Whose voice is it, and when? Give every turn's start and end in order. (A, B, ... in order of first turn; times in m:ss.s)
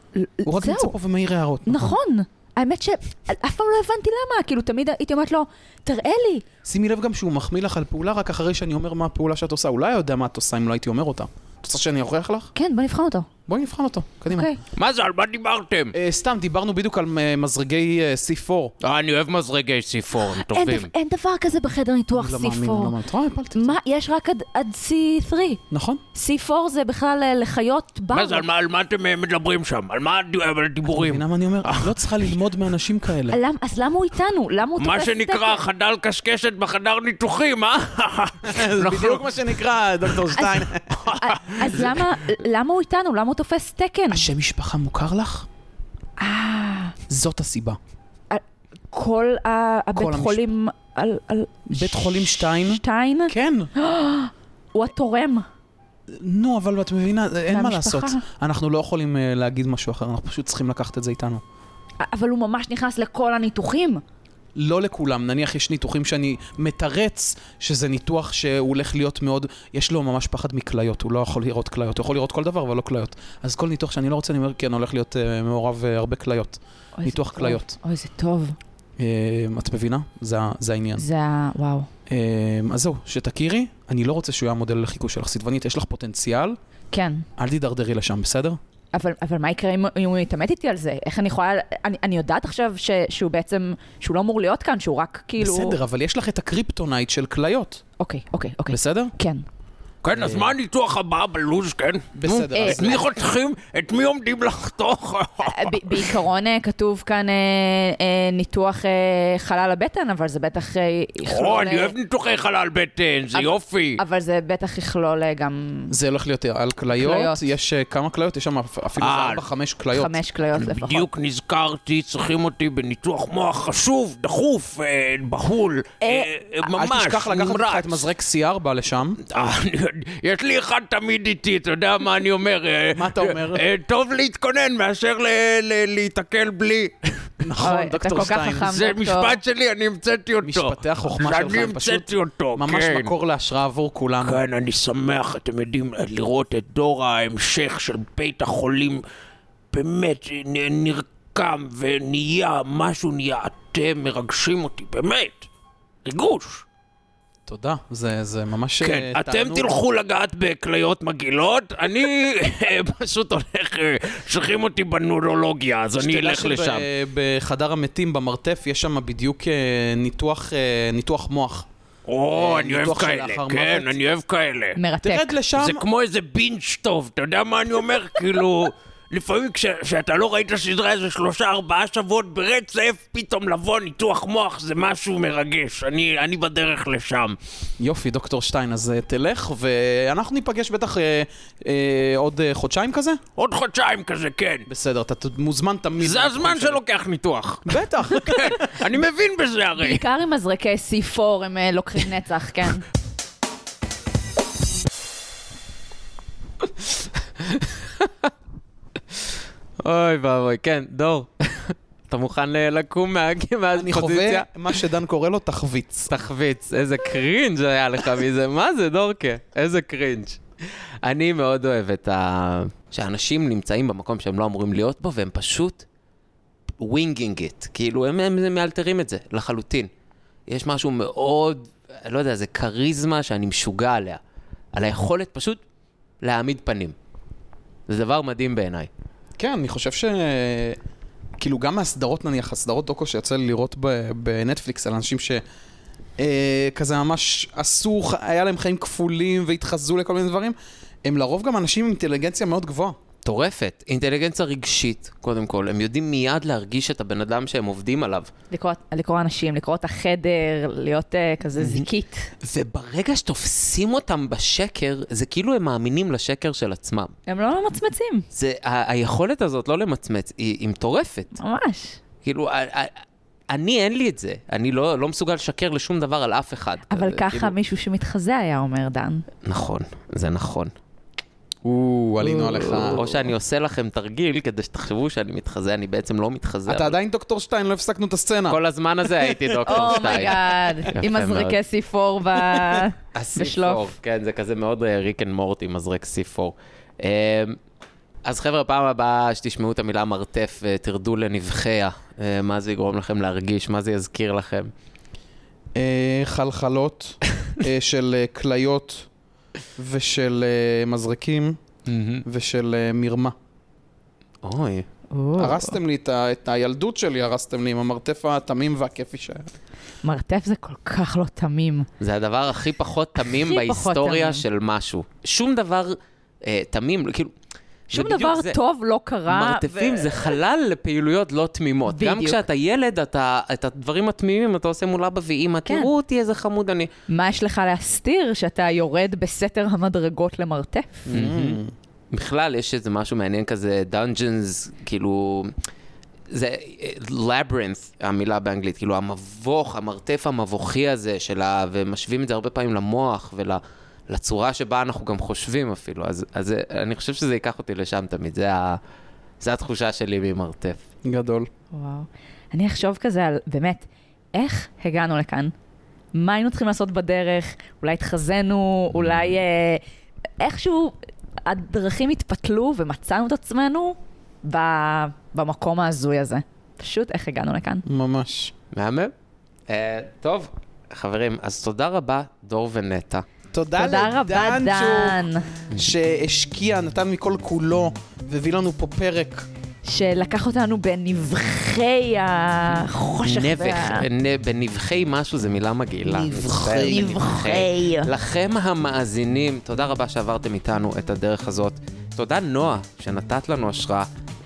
0:00.1-0:00.9 A
0:00.4-0:02.0 B
0:01.6-0:06.4 A
0:06.6-0:12.5 B
0:12.5-0:13.3 A
0:13.5-0:14.5 B
0:14.3-0:14.6 A
0:14.7-0:15.9 C
0:15.9-0:18.7 B
0:18.8-0:20.9 C
0:20.3-0:23.0 A
0:22.1-0:23.8 B
0:23.5-0:25.6 A
0:25.7-0:26.0 B
0:26.1-0:28.4 A
0:28.1-0:32.3 C
0:30.9-0:33.4 B
0:33.3-0:35.6 A
0:34.8-0:39.4 C
0:38.4-0:41.9 B
0:40.4-0:40.6 A
0:40.9-0:42.0 C
0:41.2-0:44.3 A
0:44.1-0:45.5 B
0:46.2-0:47.0 A
0:47.1-0:47.8 B
0:48.3-0:55.4 A
0:49.9-0:50.4 B
0:51.7-0:53.7 B
0:56.1-1:01.4 B
0:57.5-0:58.2 A
1:02.0-1:04.0 A
1:04.5-1:17.7 B
1:17.0-1:18.6 A
1:19.0-1:21.0 B
1:21.0-1:21.9 A
1:22.1-1:26.6 B
1:26.9-1:27.3 A
1:27.4-1:28.6 B
1:28.9-1:35.8 A
1:35.4-1:37.8 B
1:38.0-1:39.4 A
1:38.7-1:39.1 B
1:40.0-1:46.2 C
1:40.1-1:40.5 B
1:42.1-1:43.0 B
1:42.5-1:43.1 A
1:45.4-1:51.9 A
1:51.2-1:54.0 C
1:53.3-1:56.0 A
1:55.9-2:00.2 B
1:56.9-1:57.5 A
1:59.0-1:59.4 C
1:59.9-2:01.1 A
2:00.5-2:08.0 C
2:06.0-2:06.3 A
2:06.6-2:09.2 B
2:09.2-2:17.3 C
2:12.9-2:13.6 B
2:17.4-2:18.7 B
2:17.6-2:19.4 A
2:18.6-2:23.1 C
2:20.4-2:24.4 B
2:24.2-2:29.0 C
2:29.7-2:35.5 C
2:36.0-2:36.6 C
2:37.4-2:39.8 B
2:38.8-2:46.8 C
2:46.0-2:51.7 B
2:52.1-2:54.8 C
2:52.3-2:53.9 B
2:54.8-2:55.3 A
2:55.0-2:55.8 B
2:55.6-3:07.4 C
3:07.8-3:13.2 B
3:13.4-3:14.7 C
3:14.7-3:16.8 B
3:16.0-3:20.0 C
3:17.6-3:18.9 B
3:19.8-3:22.8 A
3:27.4-3:28.3 D
3:29.8-3:34.5 D
3:33.7-3:36.1 B
3:36.1-3:40.4 D
3:41.0-3:45.8 D
3:46.8-3:49.9 D
3:50.5-3:54.2 D
3:54.7-3:55.6 D
3:56.2-3:56.9 D
3:57.9-3:58.9 D
3:59.4-4:00.8 B
4:01.4-4:05.4 B
4:06.2-4:13.0 B
4:13.2-4:18.3 D
4:18.5-4:22.3 A
4:21.6-4:21.8 D
4:22.4-4:27.1 D
4:27.3-4:28.2 A
4:28.3-4:31.4 D
4:31.4-4:32.0 A
4:32.2-4:32.9 D
4:33.5-4:37.5 D
4:36.9-4:39.2 A
4:39.4-4:40.7 D
4:41.6-4:43.3 B
4:42.8-4:46.9 D
4:46.7-4:48.6 B
4:48.5-4:51.6 D
4:49.6-4:53.9 A
4:53.1-4:57.6 D
4:58.2-5:04.7 D
5:05.7-5:09.1 B
5:09.8-5:11.6 B
5:11.9-5:12.2 D
5:12.2-5:13.3 B
5:14.4-5:14.9 D
5:15.1-5:15.8 A
5:15.4-5:19.5 B
5:20.0-5:21.9 A
5:22.0-5:27.3 D
5:23.2-5:24.4 A
5:27.9-5:28.6 D
5:27.9-5:30.4 A
5:29.3-5:36.9 D
5:31.9-5:32.4 A
5:37.1-5:41.0 A
5:41.1-5:41.7 B
5:41.1-5:41.6 D
5:42.1-5:45.5 D
5:46.3-5:58.8 D
5:59.4-6:00.8 D
6:01.0-6:01.5 B
6:01.7-6:05.5 A
6:06.1-6:09.8 A
6:10.4-6:17.8 A
6:17.8-6:18.5 B
6:18.7-6:19.1 D
6:19.7-6:23.2 D
6:23.5-6:25.2 B
6:23.8-6:25.4 A
6:25.7-6:29.5 B
6:29.8-6:34.0 A
6:33.2-6:44.1 D
6:36.1-6:37.1 B
6:36.9-6:38.1 A